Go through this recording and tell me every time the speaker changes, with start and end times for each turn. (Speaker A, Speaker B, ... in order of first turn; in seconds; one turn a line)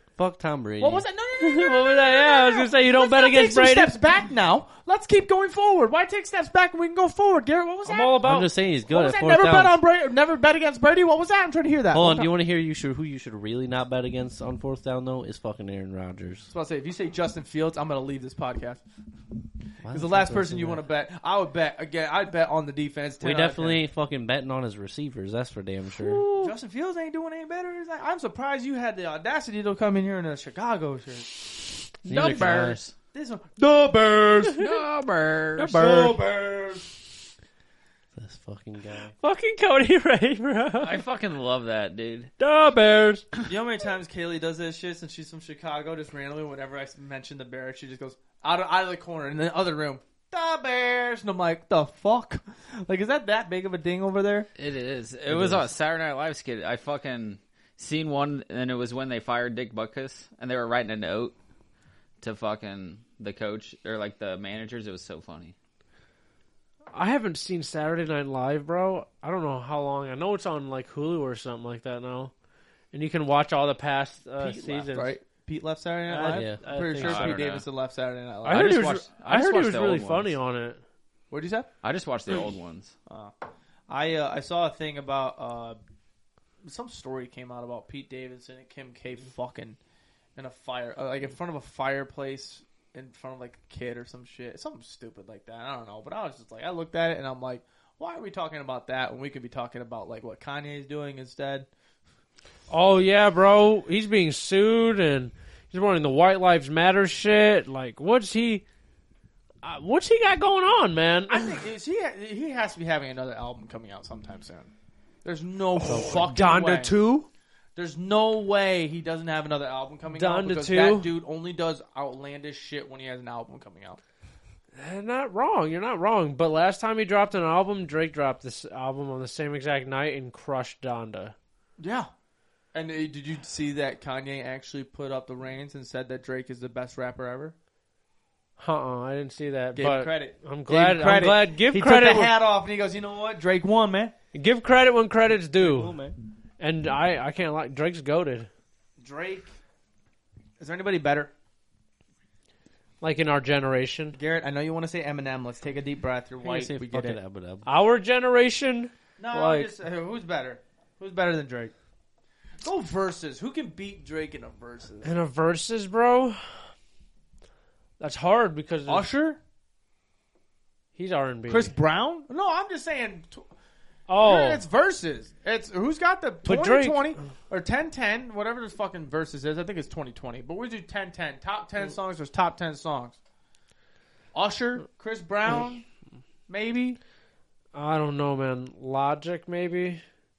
Speaker A: 0.2-1.1
Speaker B: 0.8-8.2
Speaker C: 1.4-3.9
Speaker C: 7.9-8.5
Speaker A: 8.2-9.7
Speaker B: 8.9-12.3
Speaker A: 11.9-16.5
Speaker B: 16.5-18.8
Speaker A: 19.8-20.8
Speaker B: 19.9-23.8
Speaker A: 23.2-26.2
Speaker C: 26.0-26.5
Speaker B: 26.3-31.7
Speaker A: 32.1-32.8
Speaker D: 32.1-32.9
Speaker B: 33.1-34.6
Speaker D: 34.5-35.8
Speaker C: 35.6-36.2
Speaker B: 35.6-36.9
Speaker A: 38.1-39.1
Speaker C: 39.2-41.0
Speaker D: 40.8-42.3
Speaker C: 42.4-43.2
Speaker B: 43.5-54.5
Speaker D: 54.6-61.3
Speaker A: 55.3-55.7
Speaker D: 62.2-65.5
Speaker C: 66.9-72.3
Speaker C: 72.9-75.1
Speaker B: 74.4-78.7
Speaker A: 76.1-76.7
Speaker C: 76.2-77.4
Speaker D: 77.0-77.7
Speaker C: 78.4-80.8
Speaker D: 78.5-80.4
Speaker B: 81.3-81.7
Speaker D: 81.8-82.9
Speaker B: 83.1-83.3
Speaker B: 83.9-85.8
Speaker B: 86.6-89.8
Speaker B: 90.4-101.7
Speaker C: 102.7-108.6
Speaker C: 109.6-111.6
Speaker B: 111.3-114.7
Speaker B: 115.2-117.0
Speaker C: 115.8-117.3
Speaker B: 117.8-124.0
Speaker C: 120.1-121.1
Speaker C: 124.7-131.3
Speaker B: 131.8-132.1
Speaker B: 132.7-137.6
Speaker C: 138.6-142.3
Speaker B: 139.8-144.1
Speaker C: 144.3-145.9
Speaker A: 145.6-146.2
Speaker C: 146.6-148.5
Speaker B: 149.0-149.6
Speaker B: 150.6-151.3
Speaker C: 153.0-154.2
Speaker B: 154.1-157.2
Speaker A: 156.4-157.7
Speaker C: 157.6-159.7
Speaker B: 159.2-161.7
Speaker B: 162.6-165.1
Speaker C: 165.0-166.4
Speaker C: 168.0-169.1
Speaker B: 168.9-169.4
Speaker C: 170.9-171.7
Speaker B: 171.5-173.5
Speaker C: 174.1-174.6
Speaker B: 174.2-183.2
Speaker C: 176.4-177.2
Speaker B: 184.3-185.8
Speaker B: 186.5-187.0
Speaker C: 187.7-190.0